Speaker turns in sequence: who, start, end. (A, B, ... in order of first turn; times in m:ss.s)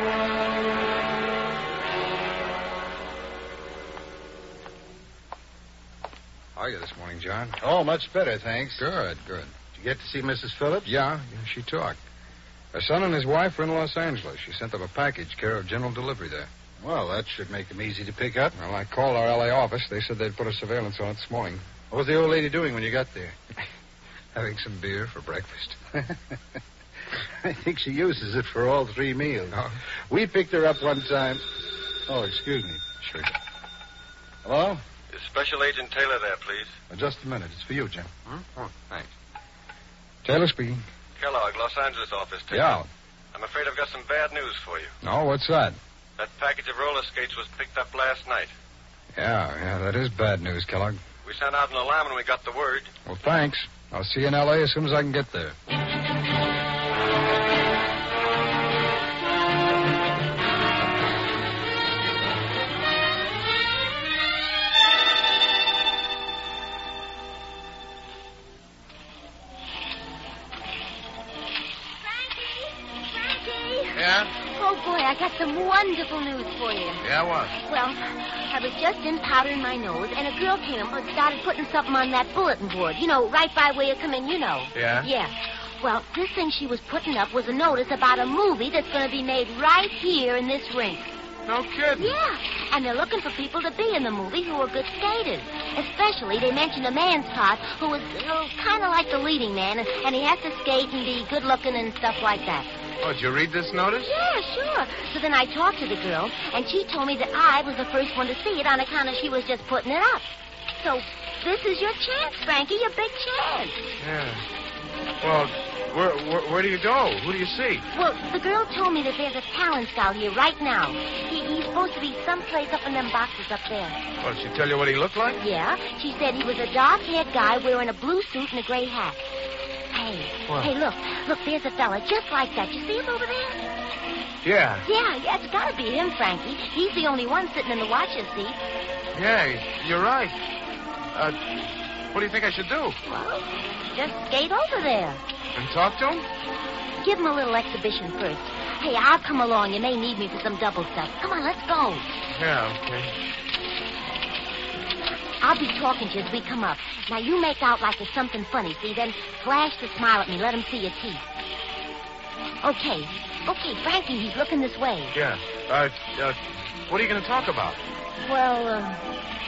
0:06.6-0:07.6 A
0:07.6-0:08.8 B
0:08.8-0:09.5 A
0:09.7-0:10.9 B
0:10.8-0:12.0 A
0:12.7-0:16.5 A
0:16.8-0:18.6 B
0:18.6-0:21.6 A
0:21.9-0:23.4 B
0:24.4-0:25.8 A
0:27.4-0:29.6 B
0:29.5-0:29.8 A
0:30.1-0:31.4 B
0:32.1-0:32.8 B
0:33.0-0:33.3 A
0:34.4-0:34.8 B
0:35.1-0:36.8 C
0:36.9-0:38.1 B
0:38.3-0:39.1 A
0:40.2-0:40.8 A
0:41.2-0:42.8 C
0:42.5-0:42.9 A
0:43.3-0:44.9 C
0:45.0-0:45.8 A
0:46.2-0:48.5 C
0:49.2-0:51.0 A
0:51.2-0:52.9 C
0:53.1-0:55.6 A
1:12.0-1:17.0 D
1:14.0-1:14.3 E
1:17.0-1:17.6 E
1:17.5-1:31.1 D
1:24.8-1:25.1 E
1:31.5-1:32.1 E
1:32.0-1:42.8 D
1:43.0-1:44.1 E
1:44.0-1:54.0 D
1:54.0-1:54.4 E
1:55.2-1:57.9 E
1:57.9-2:04.0 D
2:04.2-2:05.4 E
2:05.4-2:09.2 D
2:09.9-2:13.7 D
2:14.4-2:14.8 E
2:14.8-2:18.6 D
2:19.1-2:20.4 E
2:21.1-2:21.4 E
2:22.1-2:23.0 E
2:23.0-2:25.2 D
2:25.6-2:26.3 E
2:27.0-2:32.2 D
2:32.3-2:33.1 E
2:35.4-2:41.3 D
2:42.6-2:45.2 D
2:45.1-2:47.8 E
2:48.2-2:49.0 D